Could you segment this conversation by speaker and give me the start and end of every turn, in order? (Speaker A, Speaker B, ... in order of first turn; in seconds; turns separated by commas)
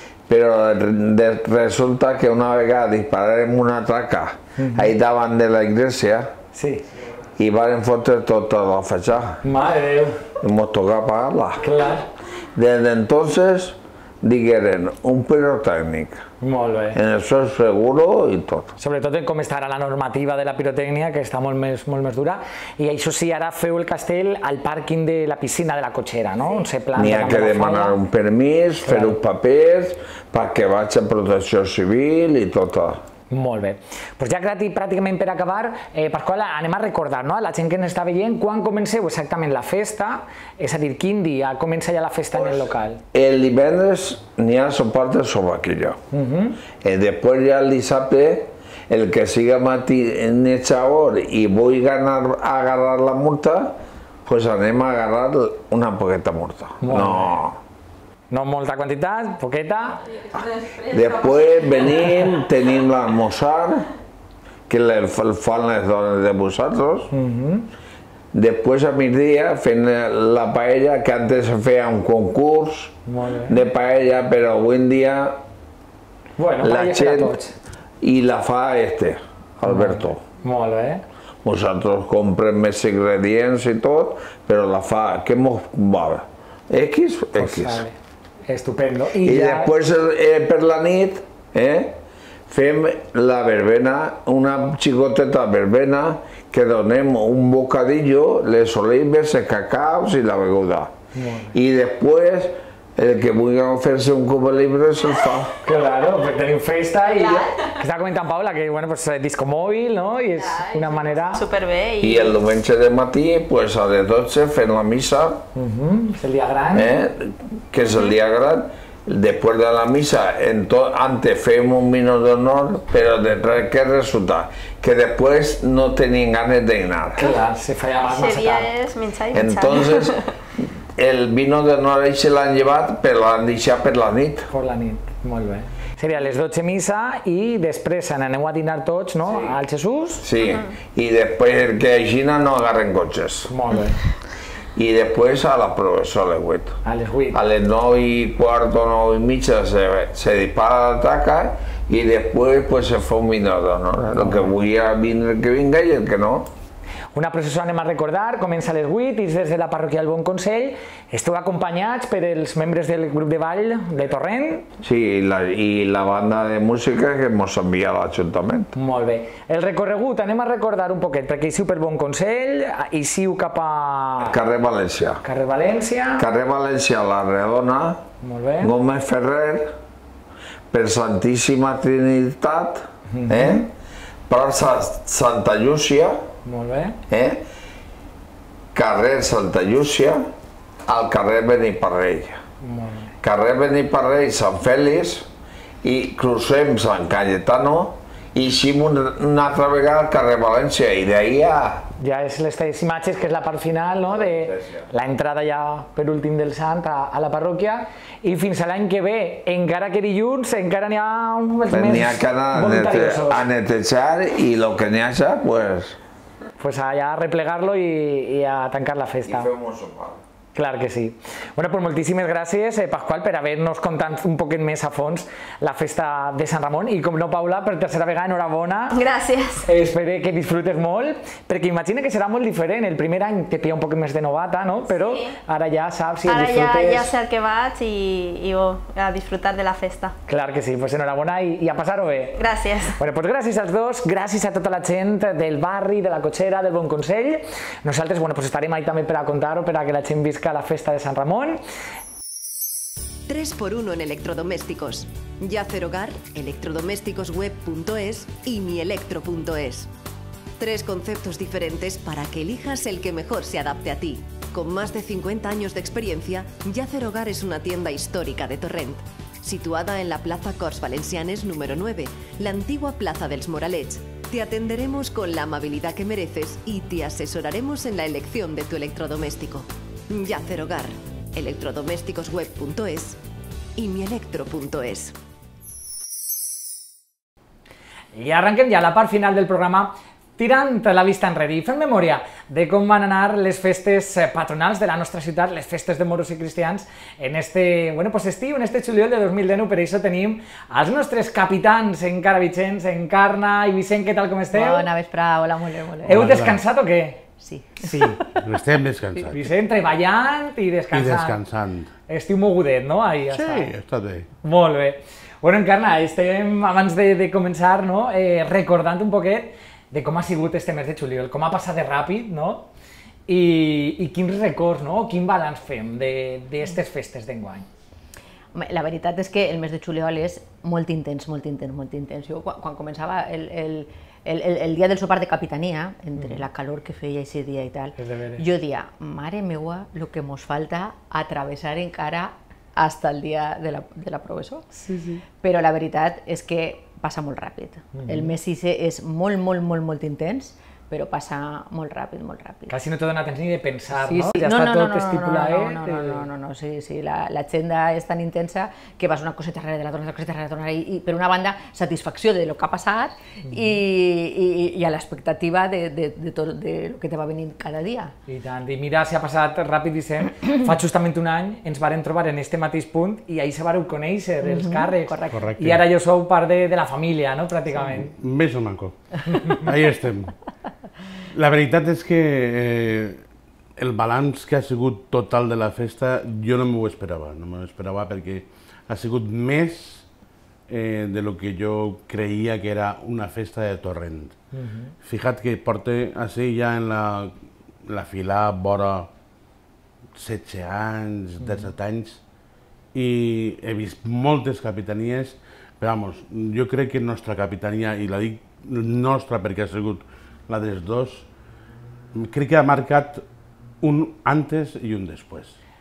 Speaker A: 0.3-6.3, Speaker B: 4.6-4.9, Speaker B: 6.5-6.8, Speaker A: 7.4-9.4, Speaker B: 9.4-10.3, Speaker A: 10.4-11.7, Speaker B: 11.6-12.1, Speaker A: 12.5-16.2, Speaker B: 16.4-17.0, Speaker A: 16.9-18.7, Speaker B: 18.8-27.9, Speaker A: 26.9-33.0, Speaker B: 28.9-29.2, Speaker B: 33.3-43.0, Speaker A: 42.3-46.0, Speaker B: 46.1-46.6, Speaker A: 46.8-57.6, Speaker B: 56.8-57.4, Speaker B: 58.3-60.0, Speaker A: 60.4-63.9, Speaker A: 64.7-67.1, Speaker B: 67.1-67.7, Speaker A: 68.3-75.4, Speaker B: 73.0-73.6, Speaker B: 76.4-77.5, Speaker A: 76.6-77.3, Speaker A: 78.0-80.2, Speaker B: 79.6-81.0, Speaker A: 81.4-87.8, Speaker B: 87.4-88.0, Speaker B: 88.5-89.7, Speaker A: 89.2-100.9, Speaker B: 101.1-101.5, Speaker A: 101.5-105.5, Speaker B: 105.6-111.4, Speaker C: 110.6-112.3, Speaker A: 112.0-115.4, Speaker B: 115.5-116.9, Speaker A: 116.7-127.3, Speaker B: 127.2-128.7, Speaker C: 128.1-130.3, Speaker A: 129.3-134.5, Speaker B: 134.5-140.2, Speaker A: 139.3-139.6, Speaker A: 140.2-143.5, Speaker C: 140.4-140.7, Speaker B: 143.5-144.0, Speaker A: 144.7-146.8, Speaker B: 146.8-147.4, Speaker A: 147.3-156.5, Speaker B: 154.2-154.5, Speaker B: 157.1-164.7, Speaker A: 164.8-168.7, Speaker B: 168.7-174.3, Speaker A: 174.2-175.2, Speaker B: 175.2-176.3, Speaker A: 176.2-178.0, Speaker B: 178.2-178.7, Speaker A: 178.6-179.7, Speaker A: 180.7-183.7, Speaker B: 183.1-183.6, Speaker A: 184.3-186.2, Speaker B: 186.4-187.0, Speaker A: 187.1-187.4, Speaker A: 188.7-190.3, Speaker A: 190.9-192.4, Speaker B: 192.6-193.1, Speaker A: 193.2-195.3, Speaker A: 195.8-201.8, Speaker B: 202.0-213.4, Speaker A: 204.1-204.9, Speaker A: 211.7-216.0, Speaker B: 216.6-219.5, Speaker A: 219.2-220.2, Speaker B: 220.5-229.0, Speaker C: 228.9-229.7, Speaker B: 229.6-237.1, Speaker C: 234.9-235.3, Speaker C: 236.2-240.1, Speaker B: 240.3-242.4, Speaker C: 242.4-242.9, Speaker B: 243.0-251.6, Speaker D: 253.3-259.9, Speaker D: 260.6-283.2, Speaker D: 283.8-285.1, Speaker B: 288.1-304.9, Speaker E: 304.5-306.3, Speaker F: 306.1-306.6, Speaker B: 306.1-307.2, Speaker E: 307.4-308.4, Speaker B: 307.8-308.2, Speaker F: 308.3-309.5, Speaker B: 309.2-311.4, Speaker F: 310.9-311.9, Speaker B: 312.1-313.7, Speaker F: 313.3-314.3, Speaker B: 314.4-322.7, Speaker B: 323.3-327.7, Speaker E: 328.5-344.7, Speaker B: 336.1-336.4, Speaker B: 338.0-338.4, Speaker B: 344.7-345.2, Speaker E: 345.4-352.7, Speaker B: 347.9-348.4, Speaker B: 352.7-356.3, Speaker E: 353.9-368.1, Speaker B: 363.4-363.8, Speaker B: 368.3-378.1, Speaker E: 374.4-375.5, Speaker F: 375.3-375.8, Speaker F: 377.9-380.3, Speaker F: 381.3-383.2, Speaker F: 383.8-390.1, Speaker F: 390.7-394.4, Speaker B: 394.5-394.9, Speaker F: 395.0-397.3, Speaker F: 397.9-399.1, Speaker F: 400.1-402.2, Speaker B: 401.4-401.7, Speaker F: 402.9-411.3, Speaker F: 412.1-413.2, Speaker F: 413.8-415.6